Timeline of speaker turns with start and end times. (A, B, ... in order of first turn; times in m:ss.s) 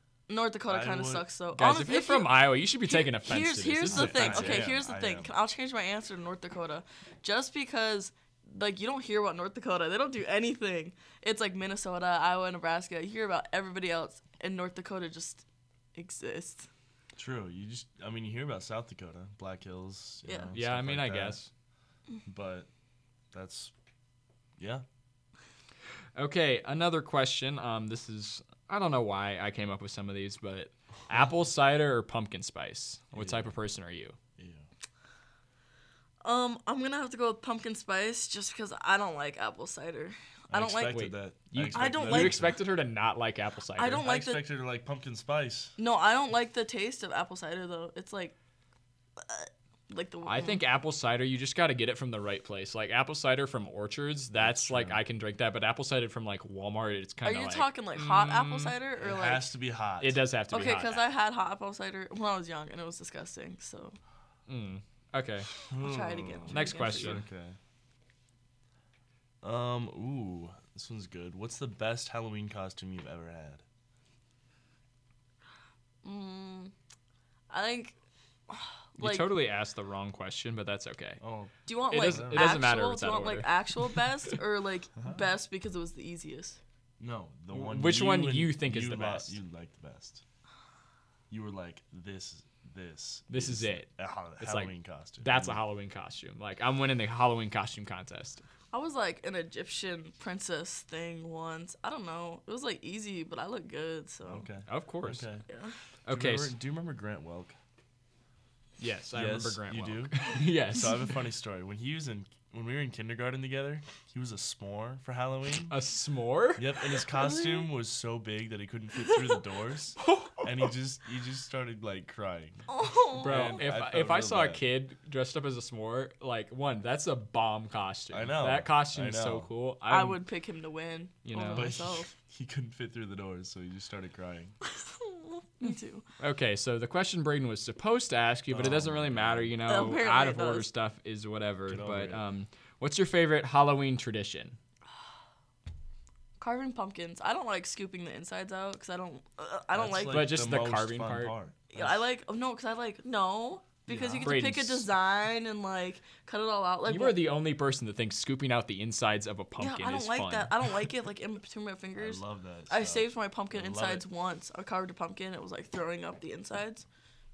0:00.3-0:02.3 A
0:00.7-0:01.2 B
0:01.5-0:04.7 C
0:02.8-0:15.4 A
0:03.9-0:05.3 B
0:15.9-0:16.7 A
0:17.2-0:21.4 B
0:20.3-0:20.5 A
0:20.5-0:21.5 C
0:22.2-0:22.7 B
0:23.3-0:23.7 B
0:24.6-0:24.8 B
0:26.2-0:34.2 C
0:33.1-0:33.6 B
0:34.4-0:34.7 B
0:36.2-0:41.0 A
0:40.5-0:42.6 B
0:40.9-0:44.0 C
0:41.7-0:42.5 A
0:43.8-0:44.4 A
0:44.0-0:45.8 B
0:45.8-0:48.3 A
0:49.2-0:50.6 A
0:50.2-0:58.8 C
0:54.3-0:55.0 B
0:57.2-0:59.5 A
0:59.0-1:00.2 B
1:00.0-1:01.0 C
1:00.5-1:04.0 A
1:04.5-1:05.5 C
1:05.7-1:07.6 B
1:05.8-1:07.2 A
1:06.5-1:07.2 C
1:09.4-1:13.6 B
1:16.0-1:16.7 A
1:17.5-1:18.0 A
1:18.5-1:19.3 A
1:19.0-1:21.2 C
1:21.2-1:22.5 B
1:21.6-1:26.6 A
1:21.9-1:23.5 C
1:27.0-1:30.2 B
1:27.5-1:29.4 C
1:31.3-1:35.6 B
1:33.3-1:33.9 C
1:34.4-1:38.4 C
1:38.7-1:44.4 A
1:44.3-1:45.4 B
1:44.7-1:45.3 C
1:45.5-1:45.8 A
1:46.0-1:46.5 C
1:46.1-1:47.6 B
1:48.8-1:51.1 C
1:49.1-1:55.8 B
1:55.7-1:56.7 C
1:56.6-2:02.6 B
1:57.1-1:57.7 A
2:02.7-2:03.5 A
2:03.2-2:10.2 C
2:03.2-2:04.6 B
2:08.1-2:09.5 B
2:09.9-2:12.1 A
2:11.2-2:11.8 C
2:11.4-2:14.6 B
2:14.6-2:16.0 A
2:16.2-2:24.6 C
2:18.5-2:19.5 B
2:19.6-2:20.7 A
2:21.7-2:22.2 B
2:26.4-2:30.3 A
2:29.7-2:32.0 B
2:30.1-2:31.3 C
2:31.7-2:37.2 A
2:33.9-2:34.4 B
2:34.2-2:34.9 C
2:36.8-2:40.5 C
2:39.6-2:46.8 A
2:42.0-2:44.0 B